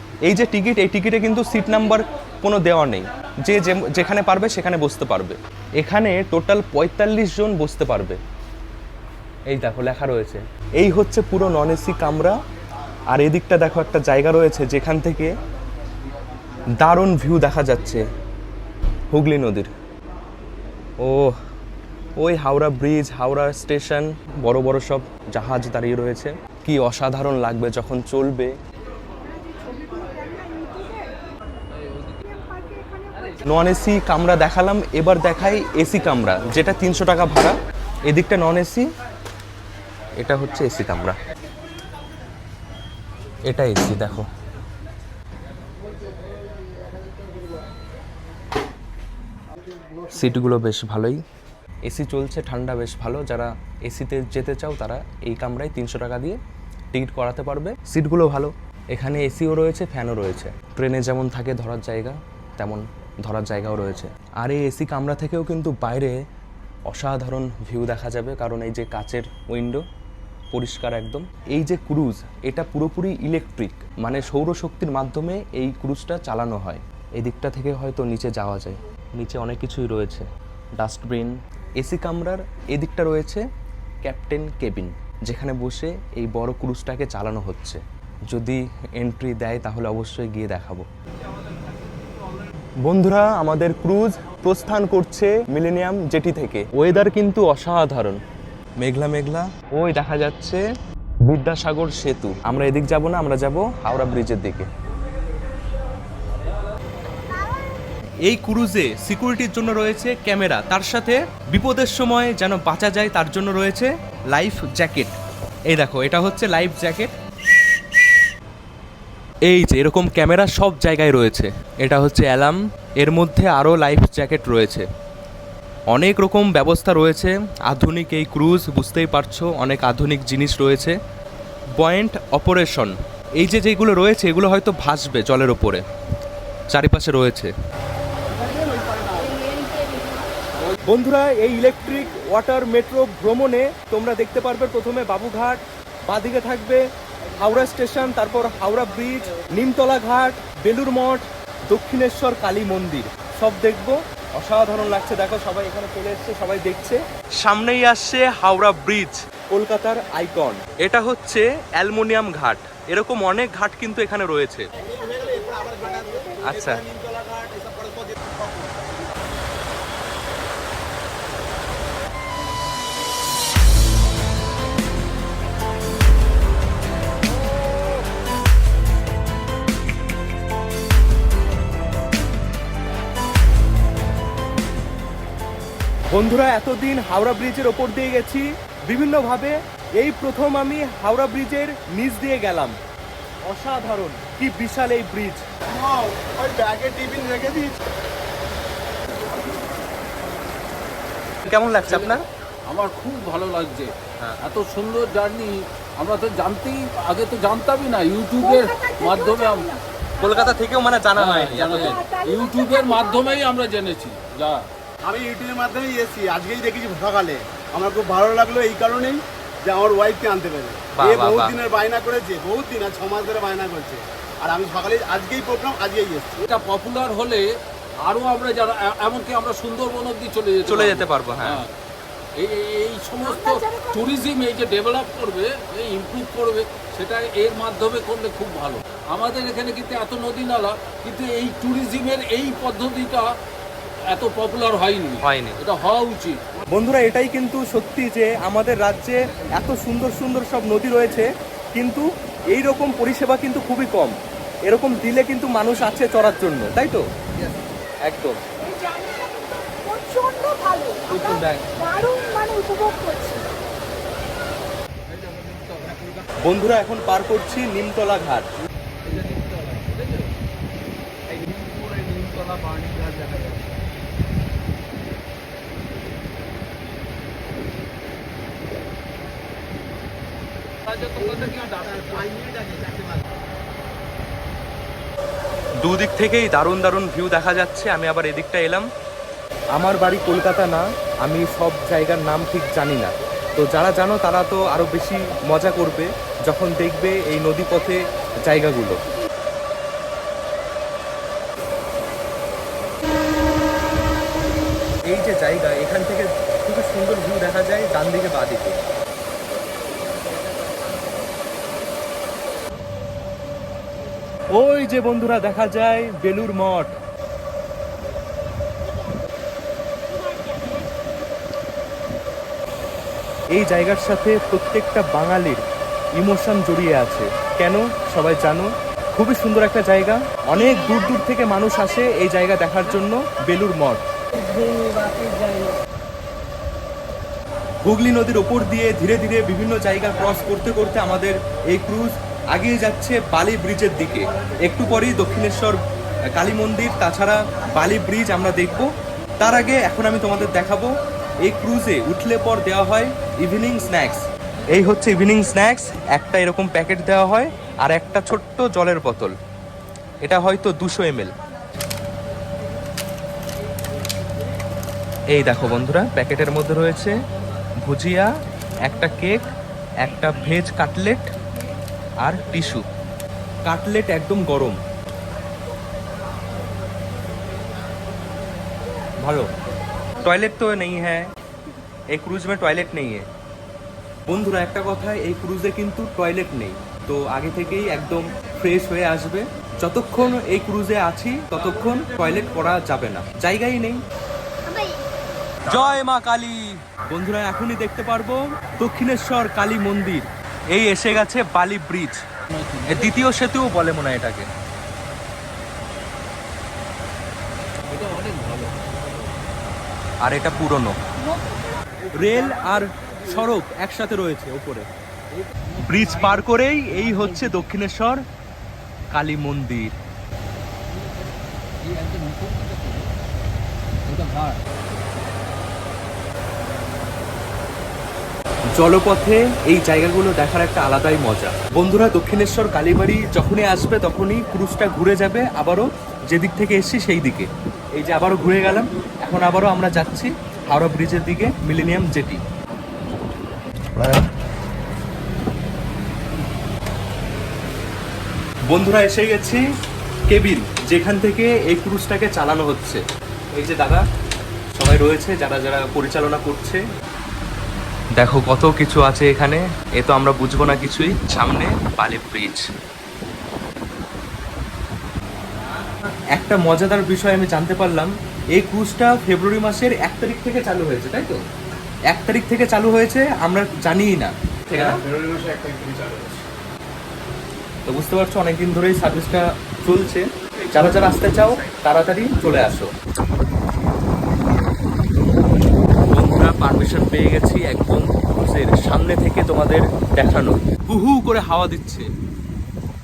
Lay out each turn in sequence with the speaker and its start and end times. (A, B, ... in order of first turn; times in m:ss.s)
0:00.3-0:08.2 A
0:09.5-0:12.4 A
0:13.1-0:15.3 A
0:16.8-0:18.0 A
0:19.1-0:19.7 A
0:21.0-0:21.3 A
0:22.2-0:28.5 A
0:29.5-0:31.1 B
0:31.9-0:32.2 C
0:32.5-0:33.0 B
0:33.4-0:37.6 A
0:38.1-0:38.9 A
0:40.2-0:41.2 A
0:43.5-0:44.3 A
0:50.1-0:51.2 A
0:51.9-0:56.4 A
0:56.9-1:06.2 A
1:06.9-1:09.8 A
1:10.5-1:20.2 A
1:20.8-1:23.4 A
1:24.0-1:30.9 A
1:32.8-1:38.2 A
1:38.8-1:40.6 A
1:41.3-1:44.7 A
1:48.3-1:55.1 A
1:55.7-1:57.1 A
1:59.5-2:04.8 A
2:05.9-2:11.0 A
2:11.8-2:15.8 A
2:16.7-2:17.5 A
2:18.4-2:19.4 C
2:20.8-2:26.8 A
2:27.4-2:44.7 A
2:44.8-2:48.8 D
2:46.4-2:46.8 A
3:06.1-3:12.8 A
3:13.5-3:15.4 A
3:15.7-3:17.7 D
3:21.4-3:22.2 A
3:21.9-3:22.1 C
3:22.7-3:29.7 C
3:28.6-3:29.8 B
3:30.2-3:32.0 A
3:31.2-3:34.7 C
3:32.1-3:32.4 B
3:35.0-3:46.4 D
3:41.0-3:41.5 A
3:46.4-3:47.4 C
3:48.1-3:51.7 C
3:50.7-3:51.6 A
3:52.4-4:03.3 C
4:04.1-4:06.4 C
4:05.2-4:05.6 A
4:06.7-4:14.2 A
4:14.7-4:17.0 A
4:18.1-4:18.4 A
4:18.6-4:21.2 B
4:21.1-4:21.7 A
4:21.8-4:23.5 B
4:25.1-4:26.2 C
4:26.4-4:28.5 A
4:29.0-4:30.3 C
4:31.3-4:33.7 C
4:40.9-4:42.3 C
4:41.2-4:43.2 D
4:45.8-4:48.9 A
4:49.8-4:59.0 A
5:05.1-5:08.8 A
5:14.5-5:17.0 A
5:23.5-5:25.6 A
5:26.2-5:34.0 A
5:34.4-5:35.8 B
5:37.8-5:45.8 A
5:46.4-5:48.9 A
5:49.4-5:50.9 A
5:51.4-5:54.2 A
5:54.8-5:59.3 A
6:00.2-6:01.3 A
6:05.3-6:07.2 A
6:07.8-6:08.3 A
6:08.9-6:09.4 A
6:10.0-6:11.3 A
6:12.2-6:12.8 A
6:13.7-6:14.8 A
6:19.2-6:19.5 A
6:20.2-6:21.3 A
6:22.1-6:23.3 A
6:24.3-6:34.0 A
6:34.7-6:35.0 B
6:35.7-6:42.2 A
6:42.5-6:43.2 C
6:42.9-6:44.5 A
6:47.9-6:49.3 C
6:50.2-6:51.0 A
6:52.1-6:54.9 A
6:52.4-6:53.1 C
6:55.4-6:57.7 C
6:55.8-6:58.2 A
6:59.1-6:59.9 A
7:00.9-7:03.1 C
7:04.1-7:04.6 C
7:08.8-7:22.4 A
7:24.0-7:24.2 A
7:28.7-7:29.6 A
7:30.3-7:33.0 A
7:33.5-7:34.0 A
7:34.8-7:36.8 A
7:38.2-7:42.6 A
7:46.3-7:51.4 A
7:52.1-7:55.0 A
7:55.1-7:56.4 D
7:57.9-8:02.9 A
8:06.0-8:12.1 A